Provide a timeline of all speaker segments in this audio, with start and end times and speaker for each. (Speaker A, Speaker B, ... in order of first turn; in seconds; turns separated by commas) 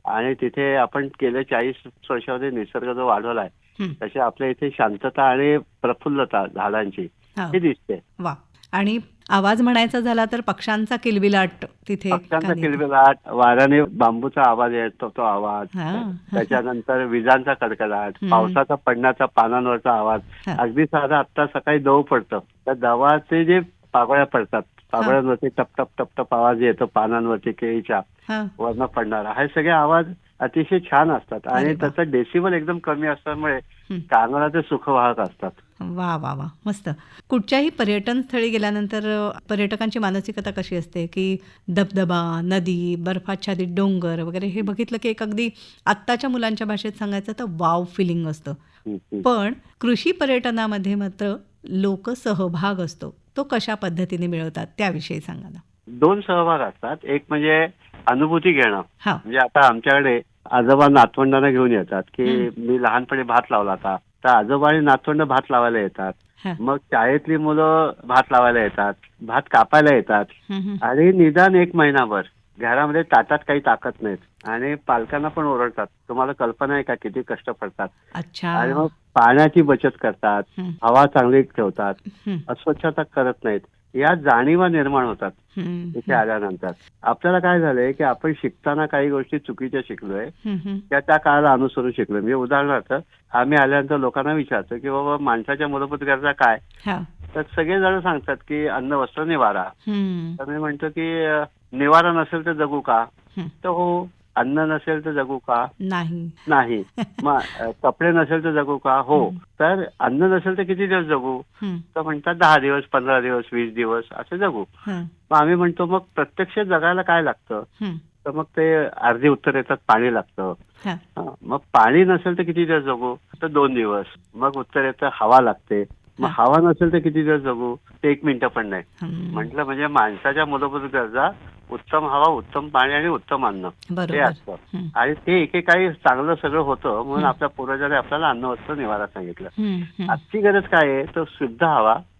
Speaker A: 0.1-8.0, Speaker B: 8.2-12.8, Speaker A: 12.1-28.0, Speaker B: 15.7-16.6, Speaker B: 18.2-18.6, Speaker A: 28.6-35.6, Speaker B: 31.5-31.9, Speaker B: 35.8-48.6, Speaker A: 48.9-49.2, Speaker B: 49.2-55.6, Speaker A: 56.0-70.3, Speaker B: 70.5-70.8, Speaker A: 70.8-77.9, Speaker B: 78.1-78.9, Speaker A: 78.5-85.4, Speaker B: 82.2-82.5, Speaker B: 85.6-86.2, Speaker A: 85.9-90.3, Speaker B: 90.4-90.8, Speaker A: 90.9-96.6, Speaker A: 97.3-99.7, Speaker B: 99.8-100.4, Speaker A: 100.4-103.0, Speaker A: 103.6-105.6, Speaker B: 105.8-106.4, Speaker A: 106.5-111.4, Speaker B: 107.0-107.2, Speaker A: 111.9-114.7, Speaker B: 114.8-115.1, Speaker A: 115.3-117.6, Speaker A: 118.2-120.5, Speaker A: 121.2-139.5, Speaker B: 129.0-129.5, Speaker B: 133.9-134.9, Speaker B: 139.6-140.2, Speaker A: 140.1-142.0